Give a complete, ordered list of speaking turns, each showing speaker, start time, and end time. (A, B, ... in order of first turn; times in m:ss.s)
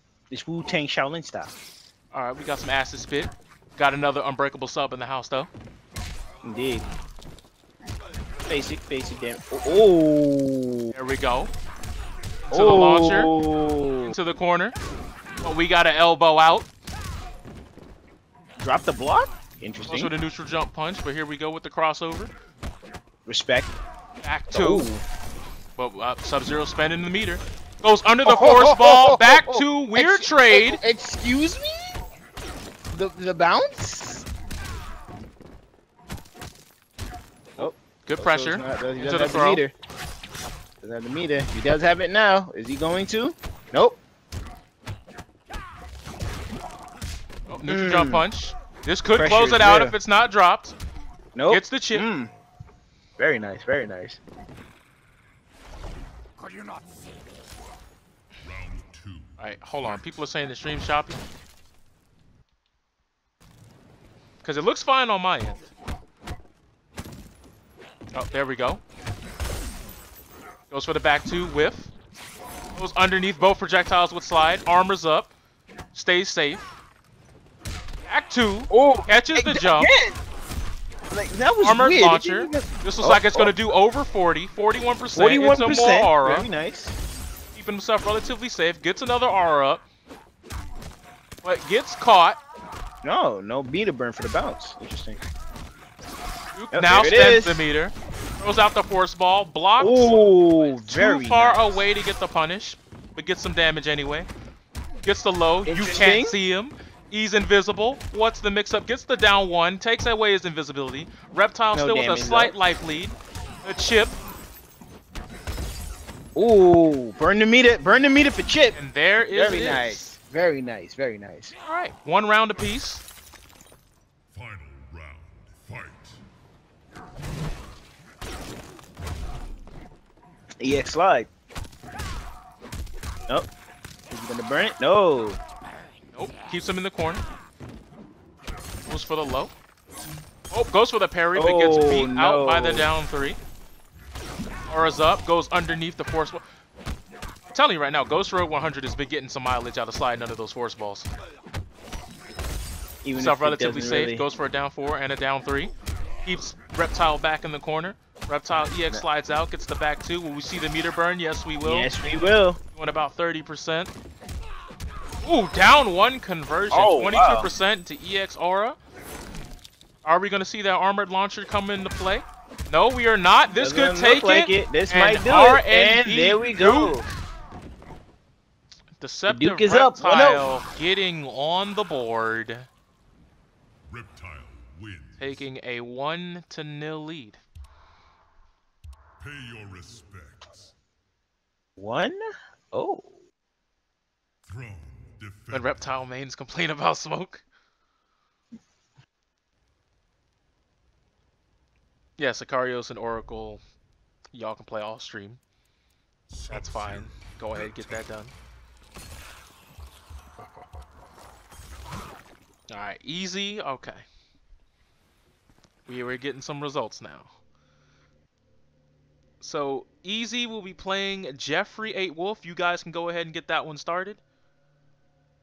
0:00.3-0:01.5 A
0:02.1-0:05.5 B
0:06.4-0:06.9 A
0:08.5-0:10.9 A
0:10.9-0:11.5 B
0:12.5-0:13.3 B
0:12.5-0:14.1 A
0:14.0-0:14.7 B
0:15.4-0:16.7 B
0:18.6-0:20.1 A
0:19.8-0:22.3 B
0:23.2-0:23.7 A
0:24.2-0:24.9 B
0:24.5-0:25.0 A
0:25.8-0:30.8 B
0:28.2-0:32.0 A
0:32.9-0:34.2 A
0:37.6-0:39.7 A
0:38.0-0:39.6 B
0:40.8-0:44.0 A
0:47.5-0:50.8 B
0:47.6-0:48.2 A
0:49.2-0:50.0 A
0:51.3-0:52.3 A
0:51.5-0:52.0 B
0:53.2-0:54.2 A
0:58.4-1:00.1 C
0:59.4-1:01.2 B
1:04.4-1:05.7 B
1:08.1-1:08.8 B
1:10.7-1:11.9 B
1:12.7-1:15.3 B
1:15.9-1:16.7 B
1:18.0-1:19.9 B
1:18.7-1:20.2 A
1:21.1-1:23.5 A
1:21.6-1:26.5 B
1:25.1-1:27.0 A
1:27.5-1:29.8 B
1:31.4-1:32.4 B
1:33.0-1:35.2 A
1:36.5-1:40.2 B
1:36.7-1:37.6 A
1:39.8-1:41.8 A
1:40.8-1:44.3 B
1:45.0-1:54.2 B
1:45.6-1:46.4 A
1:51.7-1:52.5 A
1:56.3-1:58.8 A
1:58.7-2:00.1 B
1:59.3-2:01.5 A
2:01.6-2:03.0 B
2:04.3-2:06.2 C
2:10.6-2:11.3 A
2:14.1-2:15.4 A
2:16.1-2:17.2 B
2:18.8-2:19.5 B
2:20.5-2:23.4 B
2:21.3-2:22.9 A
2:24.7-2:26.4 B
2:27.5-2:31.1 B
2:33.0-2:34.2 A
2:33.2-2:35.7 B
2:36.2-2:41.9 B
2:41.6-2:42.6 A
2:42.7-2:43.9 B
2:45.2-2:48.8 B
2:46.7-2:47.5 A
2:50.0-2:57.0 B
2:53.5-2:57.1 A
2:59.0-3:02.7 B
2:59.3-3:00.4 A
3:03.8-3:05.4 C
3:05.2-3:07.4 B
3:09.2-3:10.7 C
3:11.8-3:12.2 A
3:12.7-3:13.1 A
3:14.4-3:16.0 C
3:15.5-3:17.4 B
3:22.2-3:23.6 B
3:24.3-3:25.4 B
3:26.3-3:28.1 C
3:26.5-3:28.3 B
3:32.7-3:34.0 B
3:35.9-3:37.3 B
3:39.4-3:44.2 B